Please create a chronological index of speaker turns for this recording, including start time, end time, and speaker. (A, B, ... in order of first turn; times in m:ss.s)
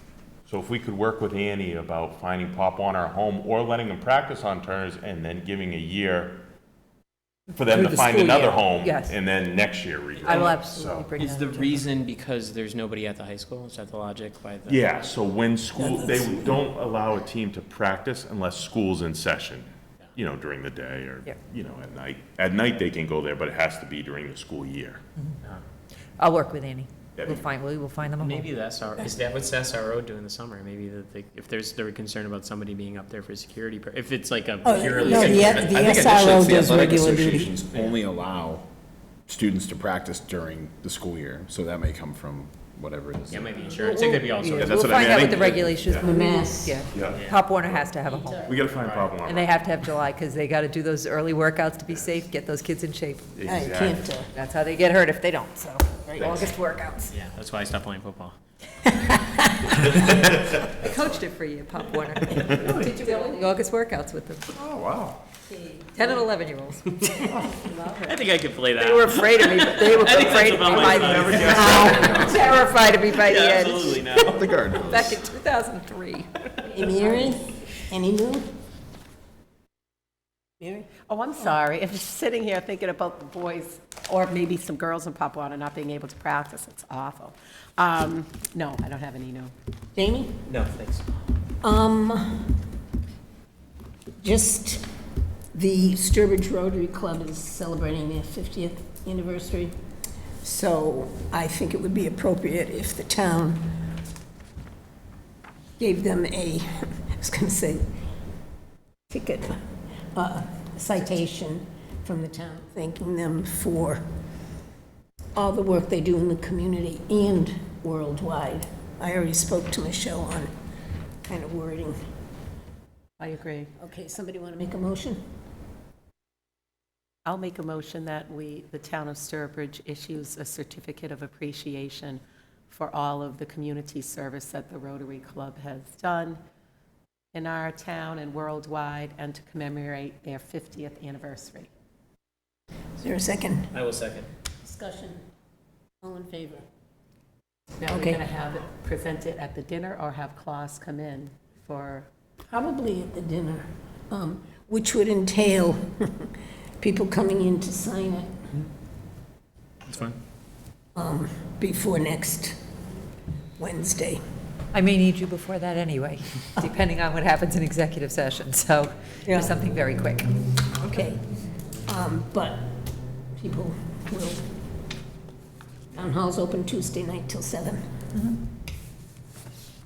0:00.5-0:06.4 A
0:07.5-0:09.2 B
0:07.6-0:11.1 A
0:10.2-0:11.8 B
0:11.2-0:15.1 C
0:14.7-0:25.0 A
0:15.8-0:16.6 D
0:26.2-0:28.5 B
0:27.2-0:27.5 A
0:28.2-0:37.1 C
0:34.6-0:37.5 D
0:35.1-0:38.7 E
0:37.7-0:38.0 C
0:39.3-0:43.6 E
0:43.3-0:45.1 C
0:43.7-0:44.2 D
0:44.2-0:48.5 B
0:44.6-0:45.6 E
0:44.8-0:46.1 A
0:46.0-0:46.9 D
0:46.9-0:47.7 A
0:47.1-0:47.4 C
0:48.4-0:49.5 A
0:48.5-0:49.2 C
0:49.2-0:53.3 B
0:53.3-0:54.0 A
0:53.4-0:54.3 D
0:54.3-0:57.1 B
0:56.1-0:56.4 D
0:56.2-0:56.5 A
0:57.1-0:58.4 C
0:59.3-0:59.7 D
0:59.8-1:00.2 C
1:00.8-1:04.6 B
1:02.6-1:03.4 F
1:04.6-1:05.2 E
1:05.7-1:08.2 B
1:07.0-1:07.3 C
1:08.0-1:14.5 C
1:08.8-1:14.1 B
1:10.7-1:12.1 A
1:11.3-1:12.3 D
1:14.2-1:15.3 E
1:14.8-1:16.3 B
1:16.7-1:18.5 D
1:20.6-1:20.9 D
1:21.1-1:29.5 F
1:30.0-1:30.4 D
1:30.4-1:31.0 C
1:31.6-1:32.6 D
1:34.2-1:34.8 D
1:35.5-1:39.7 D
1:40.4-1:43.8 D
1:45.8-1:47.8 D
1:49.1-1:54.0 D
1:55.3-2:00.5 D
2:01.3-2:02.0 D
2:03.2-2:03.7 F
2:03.8-2:05.2 D
2:07.2-2:16.4 F
2:17.3-2:21.7 F
2:23.0-2:23.7 D
2:23.7-2:24.3 C
2:24.6-2:25.2 D
2:26.0-2:26.7 D
2:27.8-2:32.1 F
2:27.9-2:28.2 D
2:32.5-2:36.3 D
2:36.8-2:38.3 D
2:39.9-2:40.2 C
2:40.9-2:42.6 D
2:43.6-2:44.2 D
2:44.7-2:50.3 B
2:49.2-2:49.6 D
2:50.8-2:51.2 D
2:51.8-2:52.8 D
2:53.3-2:54.5 D
2:55.9-2:57.8 D